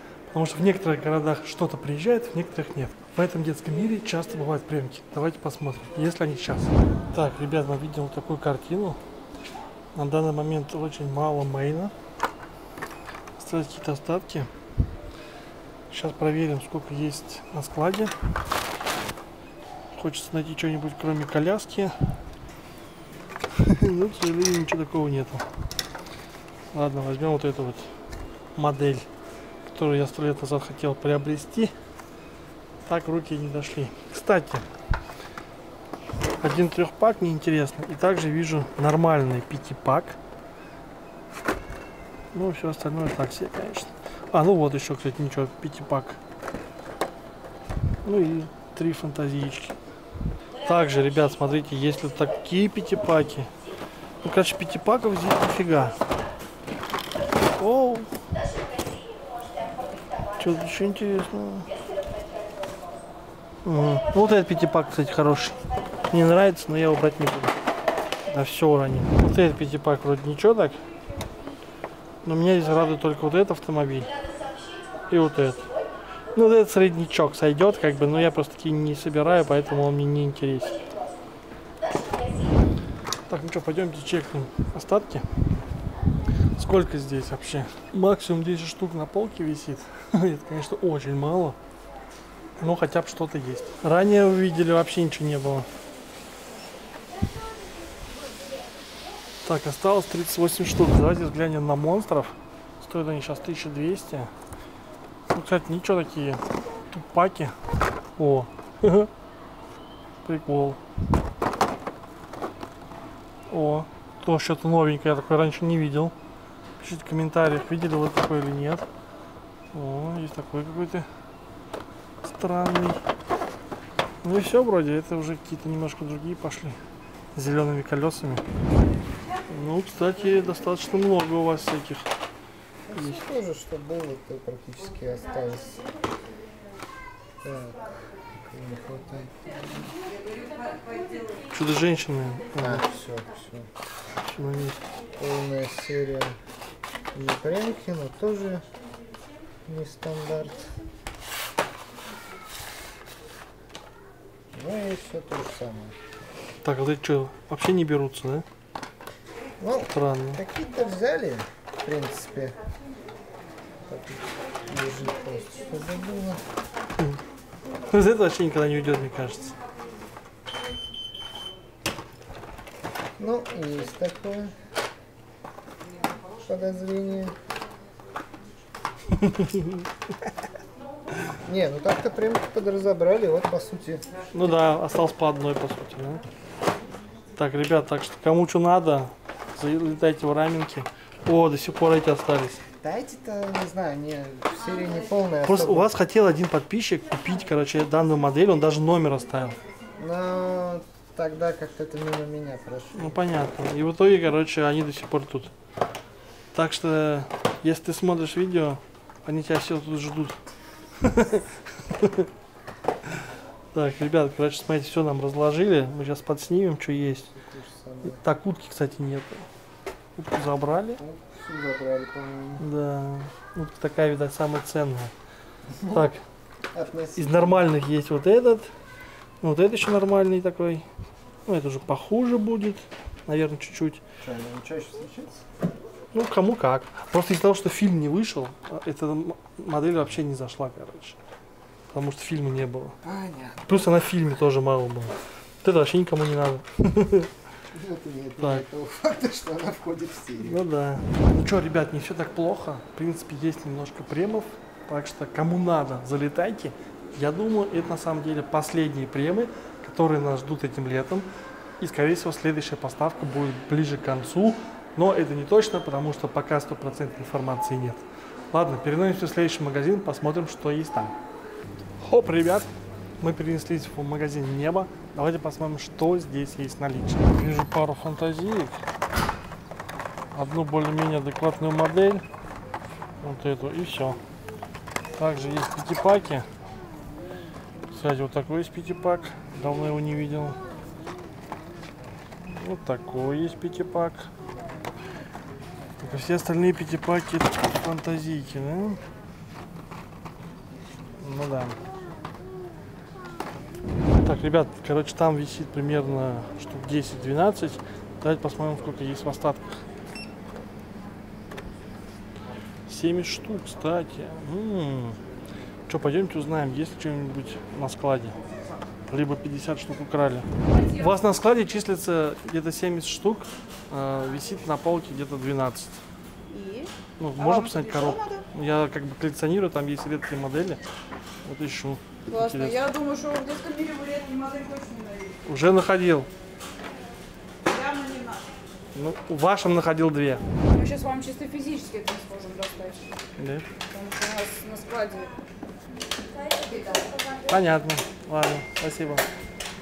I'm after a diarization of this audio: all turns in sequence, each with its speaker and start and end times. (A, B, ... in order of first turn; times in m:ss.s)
0:00.3-0:09.0 A
0:09.9-0:11.9 A
0:13.4-0:14.5 A
0:15.9-0:18.1 A
0:19.9-0:21.9 A
0:23.6-0:25.4 A
0:26.7-0:27.9 A
0:28.6-0:29.1 A
0:29.6-0:31.7 A
0:32.9-0:34.6 A
0:36.4-0:40.2 A
0:42.3-0:46.2 A
0:48.0-0:49.8 A
0:50.6-0:53.5 A
0:54.2-0:56.0 A
0:57.6-0:58.1 A
1:00.4-1:01.7 A
1:03.6-1:07.5 A
1:08.3-1:10.8 A
1:12.2-1:14.1 A
1:15.1-1:15.6 A
1:16.3-1:20.8 A
1:23.3-1:25.2 A
1:26.6-1:31.6 A
1:32.6-1:35.7 A
1:39.4-1:44.3 A
1:45.3-1:47.5 A
1:48.2-1:49.1 A
1:50.2-1:50.8 A
1:53.5-1:56.1 A
1:56.8-1:58.8 A
1:59.7-2:01.0 A
2:02.2-2:03.0 A
2:04.2-2:06.8 A
2:07.3-2:08.4 A
2:09.5-2:12.1 A
2:12.9-2:15.9 B
2:17.4-2:19.9 B
2:21.5-2:22.8 A
2:22.6-2:23.7 B
2:24.3-2:24.8 A
2:25.2-2:26.4 B
2:27.1-2:28.6 B
2:29.6-2:30.7 B
2:34.5-2:36.0 B
2:36.6-2:38.4 A
2:39.6-2:42.6 B
2:39.9-2:40.4 A
2:43.9-2:46.4 B
2:47.9-2:49.6 A
2:53.2-2:54.5 B
2:56.4-2:57.3 B
2:59.1-2:59.8 A
3:01.4-3:04.5 B
3:04.3-3:06.2 A
3:07.4-3:12.6 A
3:12.8-3:15.9 B
3:15.4-3:19.6 A
3:20.0-3:23.2 B
3:22.9-3:25.5 A
3:26.5-3:30.4 A
3:31.0-3:32.3 A
3:33.7-3:37.3 A
3:37.3-3:38.2 B
3:38.0-3:39.4 A
3:40.2-3:41.0 A
3:41.0-3:42.6 B
3:42.6-3:45.1 A
3:45.7-3:46.1 B
3:45.9-3:46.2 A
3:46.7-3:47.7 B
3:47.2-3:48.7 A
3:49.4-3:50.8 A
3:51.5-3:54.0 A
3:54.2-3:55.4 B
3:56.1-4:01.2 A
4:01.9-4:03.0 A
4:03.0-4:03.8 B
4:03.6-4:07.3 A
4:07.7-4:10.6 B
4:08.4-4:08.6 A
4:10.4-4:21.3 A
4:21.8-4:31.1 A
4:32.0-4:32.7 A
4:33.2-4:38.8 A
4:40.3-4:42.2 A
4:43.2-4:44.2 A
4:45.2-4:46.4 A
4:47.9-4:50.6 A
4:52.6-4:54.3 A
4:56.0-4:59.0 A
5:01.2-5:01.8 A
5:04.2-5:09.8 A
5:12.9-5:15.2 A
5:15.9-5:18.4 A
5:19.1-5:26.0 A
5:26.5-5:28.4 C
5:27.2-5:30.8 A
5:31.4-5:32.8 A
5:32.3-5:35.4 C
5:35.4-5:36.3 A
5:37.6-5:38.4 C
5:38.9-5:40.4 A
5:40.7-5:43.1 C
5:43.4-5:43.6 A
5:43.8-5:45.4 C
5:46.5-5:47.5 C
5:47.5-5:49.2 A